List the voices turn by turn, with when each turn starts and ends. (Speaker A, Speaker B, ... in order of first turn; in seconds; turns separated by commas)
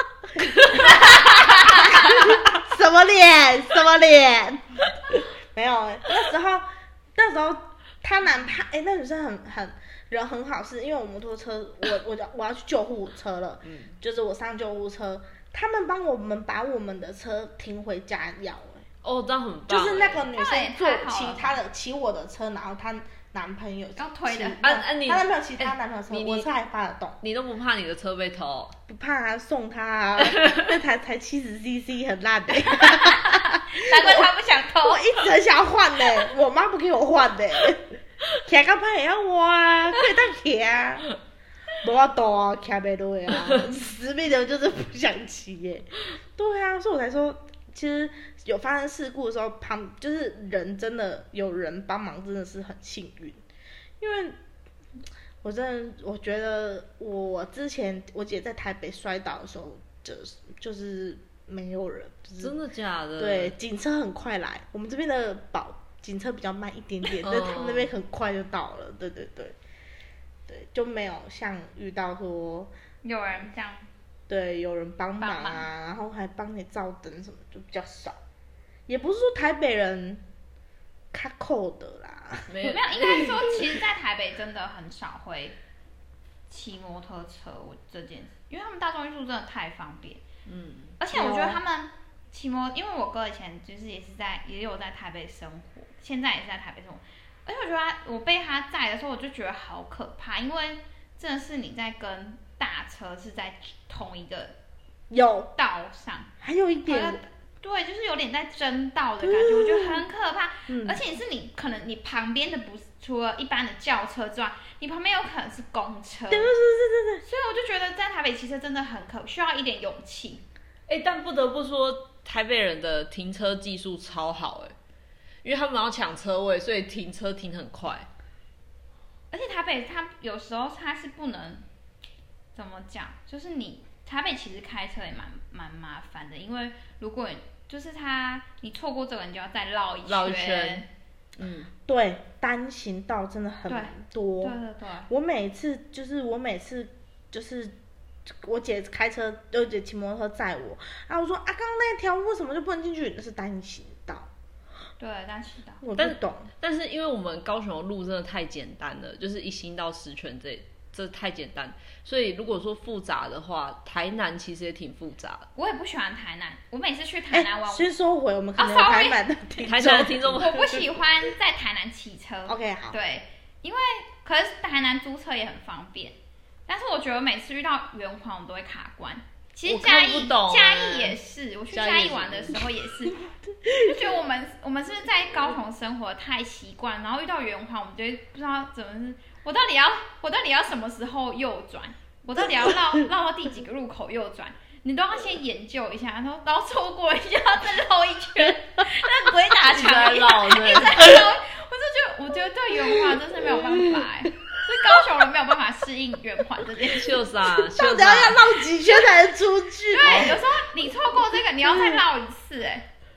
Speaker A: 0.3-18.9, Speaker B: 1.4-2.2, Speaker C: 13.6-13.9, Speaker C: 19.0-20.2, Speaker A: 19.7-27.2, Speaker B: 20.3-21.6, Speaker B: 23.9-24.6, Speaker C: 24.6-26.5, Speaker C: 27.2-28.8, Speaker A: 28.9-34.3, Speaker B: 32.8-35.2, Speaker A: 34.8-41.1, Speaker A: 41.8-53.4, Speaker A: 54.0-54.4, Speaker A: 55.4-62.5, Speaker C: 62.4-63.5, Speaker A: 63.2-69.5, Speaker C: 67.2-67.9, Speaker A: 70.5-72.7, Speaker B: 73.0-73.9, Speaker A: 74.3-78.2, Speaker B: 75.2-75.7, Speaker A: 78.9-80.2, Speaker A: 81.1-82.6, Speaker C: 82.5-83.6, Speaker B: 82.6-85.5, Speaker B: 86.5-90.2, Speaker C: 90.5-90.9, Speaker B: 91.0-104.5, Speaker A: 91.1-91.6, Speaker A: 105.1-105.5, Speaker B: 105.5-106.3, Speaker A: 106.4-107.2, Speaker B: 106.8-116.5, Speaker A: 109.2-110.0, Speaker A: 110.7-111.0, Speaker A: 116.3-117.2, Speaker B: 117.2-120.4, Speaker C: 120.9-124.8, Speaker C: 125.4-128.1, Speaker B: 129.3-131.7, Speaker B: 132.5-140.9, Speaker C: 140.1-140.8, Speaker C: 141.4-141.7, Speaker A: 141.9-144.6, Speaker B: 143.7-145.1, Speaker A: 145.1-147.7, Speaker A: 148.4-154.3, Speaker B: 155.0-155.8, Speaker A: 155.8-156.5, Speaker C: 155.9-165.5, Speaker B: 165.5-167.9, Speaker A: 167.3-170.6, Speaker B: 168.6-169.2, Speaker C: 169.6-170.8, Speaker B: 170.4-207.2, Speaker A: 172.5-172.9, Speaker C: 179.7-181.2, Speaker C: 181.7-182.6, Speaker A: 183.6-184.0, Speaker A: 192.4-192.9, Speaker C: 199.7-201.2, Speaker C: 206.8-208.5, Speaker A: 207.5-210.4, Speaker B: 209.9-212.8, Speaker C: 210.0-210.4, Speaker A: 211.6-212.0